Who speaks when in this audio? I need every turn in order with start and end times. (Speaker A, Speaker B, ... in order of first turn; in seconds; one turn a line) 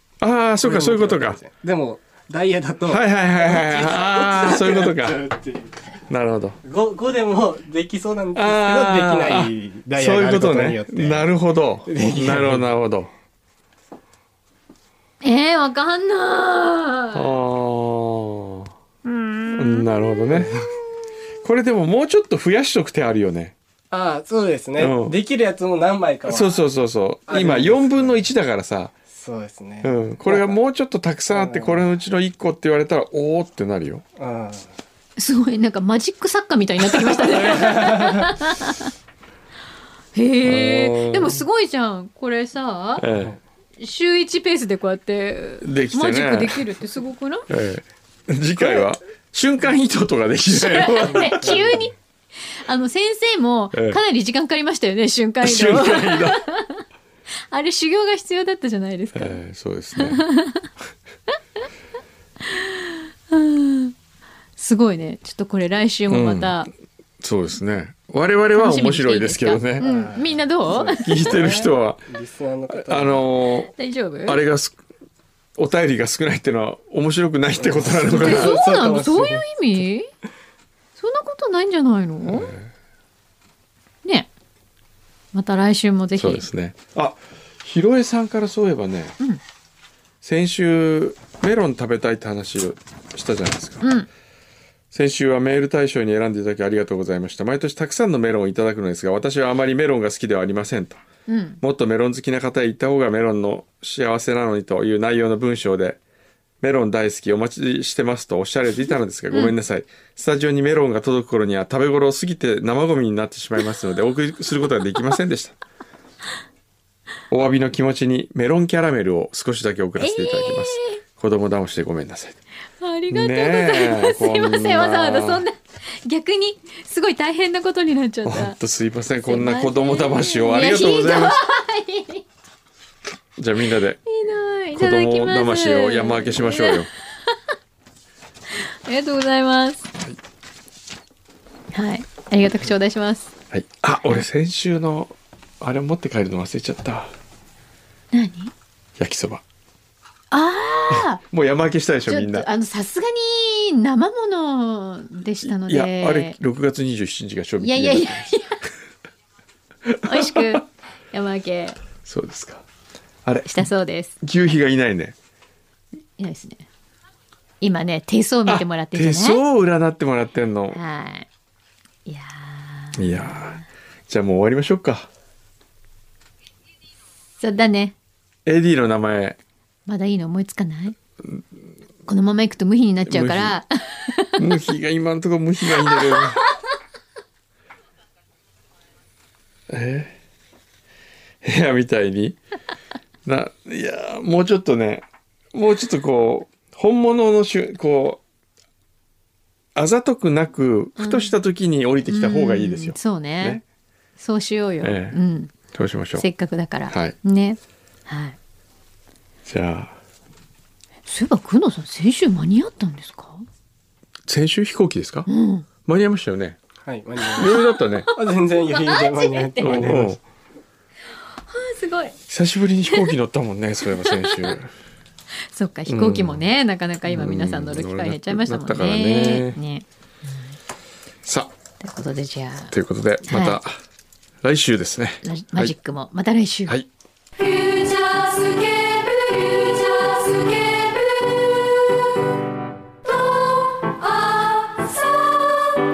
Speaker A: 0.2-1.4
Speaker B: 0.6-6.0
Speaker A: 2.9-5.2
Speaker A: 6.1-6.6
Speaker B: 6.6-11.3
Speaker A: 8.3-13.1
Speaker B: 11.9-12.7
Speaker C: 15.2-17.3
Speaker A: 17.1-18.7
Speaker C: 19.1-20.2
Speaker A: 19.6-20.5
Speaker B: 20.3-20.6
Speaker A: 21.4-23.5
Speaker B: 23.9-26.7
Speaker A: 24.8-25.2
Speaker A: 26.3-28.9
Speaker B: 27.3-28.3
Speaker B: 29.1-30.6
Speaker A: 29.8-34.0
Speaker B: 31.3-31.9
Speaker B: 34.2-34.8
Speaker C: 35.2-38.9
Speaker A: 37.1-37.4
Speaker C: 40.1-43.1
Speaker A: 40.4-41.5
Speaker A: 43.0-43.4
Speaker C: 43.8-47.5
Speaker A: 45.6-46.6
Speaker A: 47.5-51.7
Speaker C: 50.5-51.9
Speaker B: 51.1-51.9
Speaker C: 52.6-56.8
Speaker A: 53.7-54.0
Speaker A: 55.4-56.4
Speaker C: 57.5-59.4
Speaker A: 59.1-60.2
Speaker C: 60.0-60.7
Speaker C: 62.5-63.9
Speaker C: 64.6-66.7
Speaker A: 66.1-66.6
Speaker A: 67.2-69.8
Speaker C: 68.6-71.3
Speaker B: 69.8-73.3
Speaker A: 71.0-72.1
Speaker A: 72.8-73.7
Speaker C: 73.6-74.4
Speaker A: 74.3-74.8
Speaker A: 75.6-78.6
Speaker B: 77.6-79.5
Speaker C: 78.2-80.1
Speaker C: 81.0-82.5
Speaker A: 82.2-82.7
Speaker C: 84.0-84.3
Speaker C: 85.3-86.5
Speaker A: 86.2-89.2
Speaker A: 90.2-93.9
Speaker C: 93.8-94.1
Speaker A: 94.9-101.0
Speaker C: 101.3-101.6
Speaker A: 101.6-106.0
Speaker A: 106.6-115.6
Speaker A: 117.3-122.4
Speaker C: 120.0-121.0
Speaker C: 122.8-128.6
Speaker A: 123.1-125.5
Speaker A: 128.2-131.4
Speaker C: 129.2-132.2
Speaker A: 133.4-134.0
Speaker C: 134.1-137.3
Speaker A: 134.7-136.9
Speaker C: 138.6-139.9
Speaker C: 141.7-143.3
Speaker A: 143.5-147.1
Speaker C: 148.1-148.5
Speaker A: 149.0-149.4
Speaker C: 150.3-151.2
Speaker A: 150.9-152.5
Speaker C: 152.1-156.4
Speaker A: 155.4-158.3
Speaker C: 157.6-158.7
Speaker C: 160.0-161.8
Speaker A: 160.0-160.4
Speaker A: 162.1-162.6
Speaker A: 163.2-163.7
Speaker C: 163.5-164.1
Speaker A: 164.2-165.2
Speaker C: 166.2-166.7
Speaker C: 167.6-169.4
Speaker A: 168.5-170.8
Speaker C: 170.7-171.3
Speaker C: 172.1-173.6
Speaker A: 173.0-175.1
Speaker C: 177.4-178.0
Speaker A: 178.5-179.4
Speaker C: 179.9-181.0
Speaker C: 182.1-184.4
Speaker A: 183.1-183.6
Speaker A: 184.4-186.4
Speaker C: 185.8-186.4
Speaker A: 189.7-190.2
Speaker A: 191.4-192.4
Speaker A: 193.2-198.2
Speaker A: 199.8-203.6
Speaker C: 201.0-201.4
Speaker C: 202.1-203.6
Speaker C: 204.2-205.5
Speaker A: 204.8-205.2
Speaker A: 205.7-206.3
Speaker C: 206.2-208.4
Speaker A: 206.9-207.2
Speaker A: 209.4-210.0
Speaker C: 211.1-213.4
Speaker A: 214.3-215.3
Speaker C: 215.3-215.7
Speaker A: 215.8-216.6
Speaker B: 216.8-217.6
Speaker C: 217.3-219.8
Speaker A: 217.4-218.1
Speaker B: 218.2-220.2
Speaker A: 219.6-220.2
Speaker C: 221.4-222.2
Speaker A: 222.3-224.7
Speaker C: 223.9-224.6
Speaker C: 225.5-229.9
Speaker A: 225.9-226.5
Speaker A: 227.1-229.6
Speaker A: 231.2-231.5
Speaker C: 231.8-233.6
Speaker A: 232.7-233.7
Speaker A: 234.4-235.7
Speaker C: 235.2-236.8
Speaker C: 237.4-241.6
Speaker C: 243.1-245.8